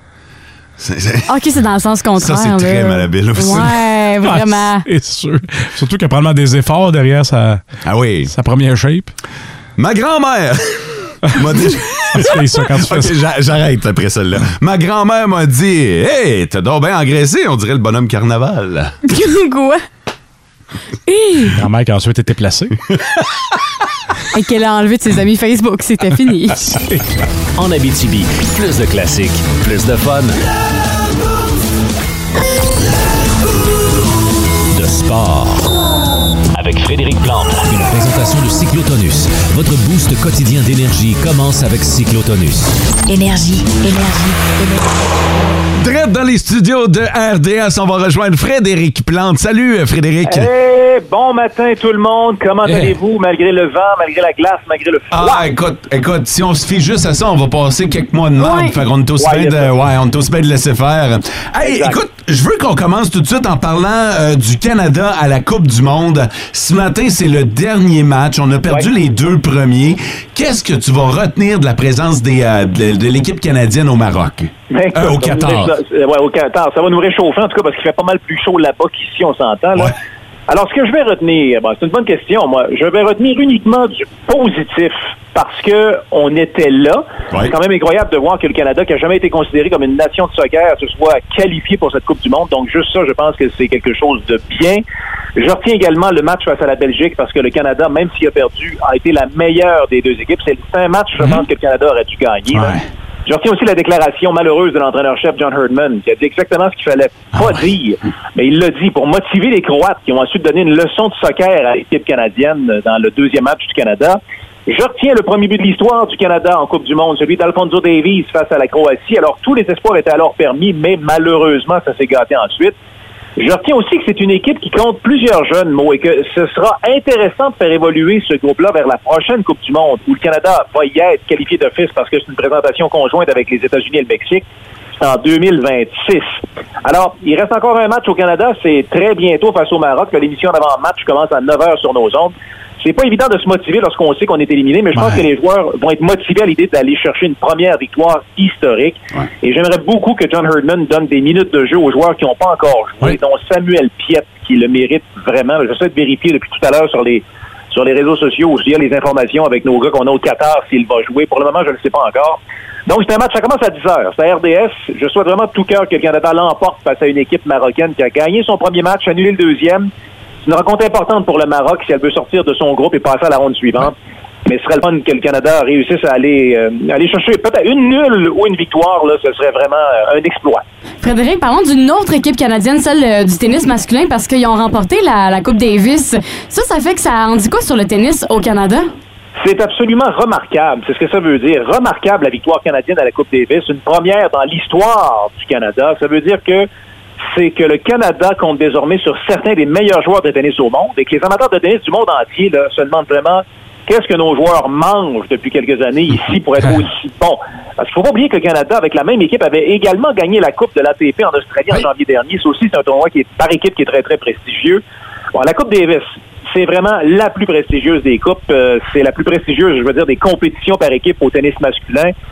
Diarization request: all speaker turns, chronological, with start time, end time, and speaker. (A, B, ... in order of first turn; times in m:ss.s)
0:00.8-0:01.3 A
0:01.3-0:04.9 B
0:02.2-0:03.8 A
0:04.2-0:07.6 C
0:07.9-0:08.3 A
0:08.3-0:09.1 C
0:09.8-0:19.0 A
0:12.1-0:13.1 C
0:19.1-0:19.8 B
0:21.1-0:21.5 B
0:21.5-0:22.8 C
0:24.3-0:26.8 B
0:27.6-0:30.4 D
0:34.8-0:35.6 D
0:36.9-0:38.4 D
0:39.0-0:42.5 D
0:43.1-0:45.2 E
0:45.8-0:50.5 A
0:50.2-0:55.4 F
0:52.6-0:53.0 C
0:55.1-1:15.7 A
0:58.4-0:59.7 F
1:01.6-1:02.0 F
1:14.7-1:20.0 F
1:20.5-1:34.8 F
1:35.4-2:02.8 F
1:42.5-1:42.8 C
2:03.4-2:14.4 F
2:15.0-2:49.9 F
2:24.9-2:25.3 C
2:50.4-3:00.6 F
3:01.0-3:08.9 B
3:09.4-3:16.7 F
3:17.2-3:34.8 F
3:35.3-3:42.1 F